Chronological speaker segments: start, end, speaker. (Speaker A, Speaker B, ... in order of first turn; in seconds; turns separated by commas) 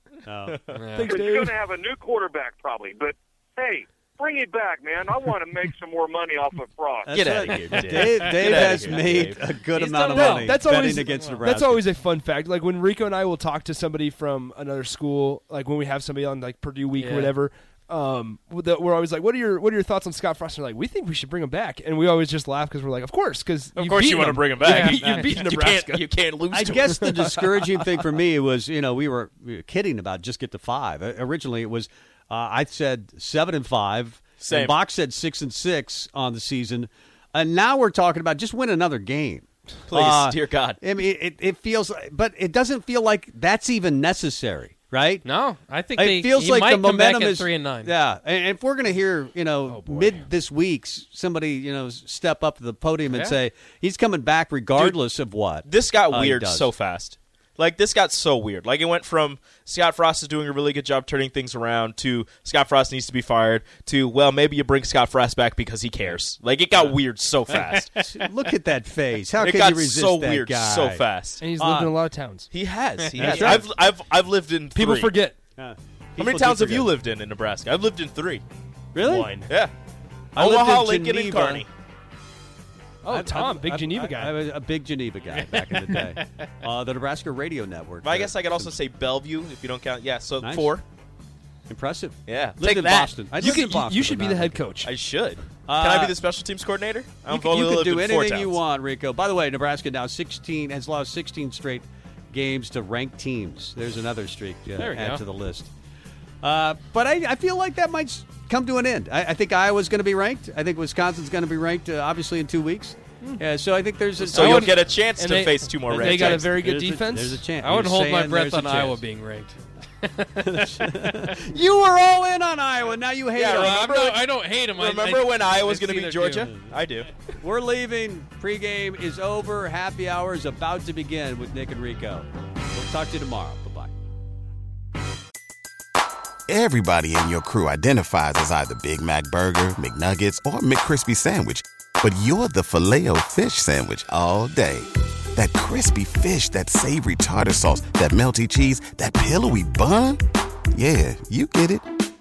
Speaker A: 0.2-0.8, Speaker B: 0.7-1.1, Speaker C: 0.9-1.6, Speaker D: 1.0-7.1, Speaker A: 7.1-11.8, Speaker E: 7.1-9.5, Speaker B: 8.2-9.2, Speaker B: 9.7-11.4, Speaker C: 10.1-26.1, Speaker B: 16.9-17.3, Speaker E: 23.8-27.1, Speaker B: 24.6-25.2, Speaker A: 26.5-45.2, Speaker C: 26.6-27.9, Speaker E: 34.4-34.8, Speaker E: 39.9-40.8, Speaker B: 45.2-47.9, Speaker A: 45.9-56.7, Speaker C: 49.7-50.3, Speaker B: 53.0-53.4, Speaker E: 55.6-67.9, Speaker A: 67.5-71.9, Speaker B: 67.8-68.5, Speaker E: 69.4-71.5, Speaker C: 71.4-72.5, Speaker E: 72.5-75.1, Speaker B: 73.1-73.6, Speaker A: 73.2-73.6, Speaker C: 73.2-73.5, Speaker C: 74.7-75.4, Speaker A: 75.5-77.0, Speaker E: 76.2-78.4, Speaker A: 78.9-79.3, Speaker C: 79.0-79.5, Speaker E: 79.5-79.7, Speaker A: 80.3-81.7, Speaker E: 80.3-81.7, Speaker C: 83.0-84.4, Speaker A: 83.0-88.8, Speaker B: 85.2-86.5, Speaker E: 88.0-90.8, Speaker A: 90.4-90.8, Speaker A: 91.7-94.6, Speaker E: 92.3-93.2, Speaker C: 93.4-94.9, Speaker E: 94.8-98.6, Speaker A: 95.7-96.2, Speaker A: 97.2-105.7, Speaker B: 104.8-105.2, Speaker A: 106.4-114.8, Speaker E: 114.3-116.5, Speaker C: 114.3-117.5, Speaker A: 115.9-119.0, Speaker B: 117.6-121.4, Speaker A: 120.4-124.1, Speaker E: 123.3-127.1, Speaker B: 123.7-126.5, Speaker A: 127.4-133.9, Speaker F: 136.5-150.2, Speaker F: 150.7-151.8